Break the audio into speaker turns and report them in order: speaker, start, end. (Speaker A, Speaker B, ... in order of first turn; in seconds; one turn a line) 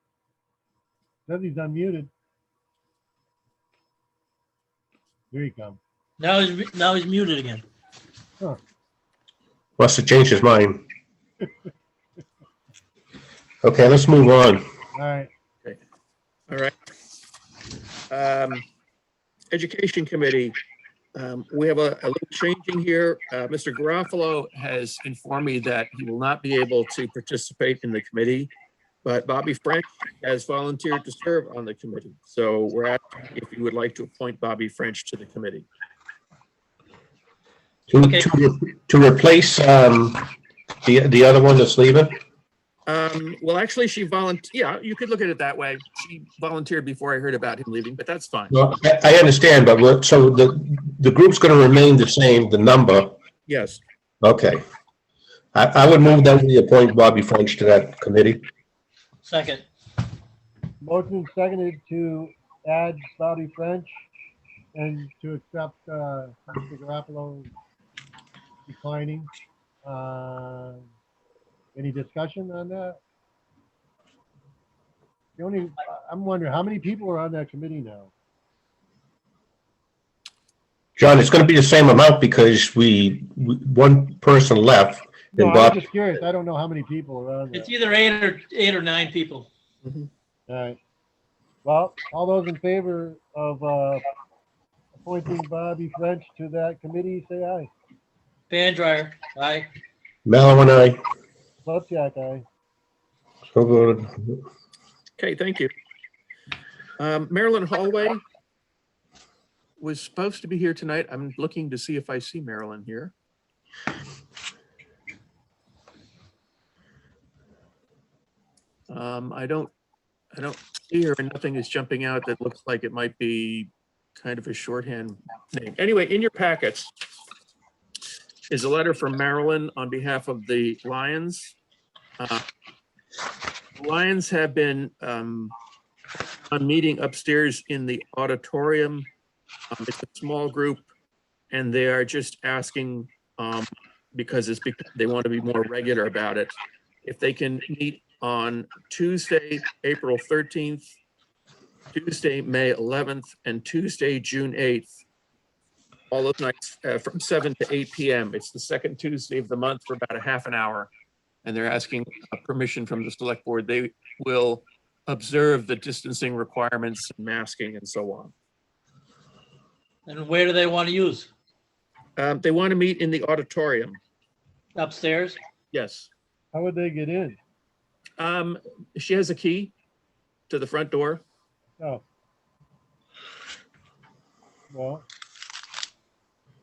Speaker A: 1.3-2.1
Speaker A: 5.3-5.8
Speaker B: 6.2-7.6
Speaker C: 9.8-10.8
Speaker C: 13.6-14.6
Speaker A: 14.9-15.3
Speaker D: 18.1-18.6
Speaker D: 19.5-20.6
Speaker D: 21.1-28.5
Speaker D: 29.0-35.7
Speaker C: 37.9-40.3
Speaker B: 38.0-38.3
Speaker C: 40.8-42.2
Speaker D: 42.9-48.6
Speaker C: 48.5-53.1
Speaker D: 53.5-53.8
Speaker C: 54.2-54.6
Speaker C: 55.5-58.4
Speaker B: 59.2-59.6
Speaker A: 60.8-63.9
Speaker A: 64.7-67.5
Speaker A: 68.7-69.3
Speaker A: 69.8-70.8
Speaker A: 71.7-73.0
Speaker A: 75.4-78.1
Speaker C: 81.0-85.8
Speaker A: 85.3-87.7
Speaker B: 87.5-89.5
Speaker D: 89.8-90.1
Speaker A: 90.5-90.8
Speaker A: 91.6-94.0
Speaker A: 95.0-97.7
Speaker B: 98.5-99.7
Speaker C: 100.2-101.0
Speaker A: 101.6-102.4
Speaker C: 103.5-104.4
Speaker D: 105.2-105.7
Speaker D: 107.0-108.2
Speaker D: 109.8-113.1
Speaker D: 118.9-119.7
Speaker D: 120.3-126.9
Speaker D: 128.5-131.6
Speaker D: 132.2-132.4
Speaker D: 133.8-135.5
Speaker D: 136.5-139.1
Speaker D: 139.7-140.9
Speaker D: 141.5-150.9
Speaker D: 151.9-154.9
Speaker D: 156.1-160.9
Speaker D: 161.4-168.3
Speaker B: 170.1-171.3
Speaker D: 172.2-174.0
Speaker B: 174.8-175.4
Speaker D: 175.7-176.1
Speaker A: 176.5-177.4
Speaker D: 178.2-179.7
Speaker D: 180.5-181.2
Speaker A: 184.7-185.1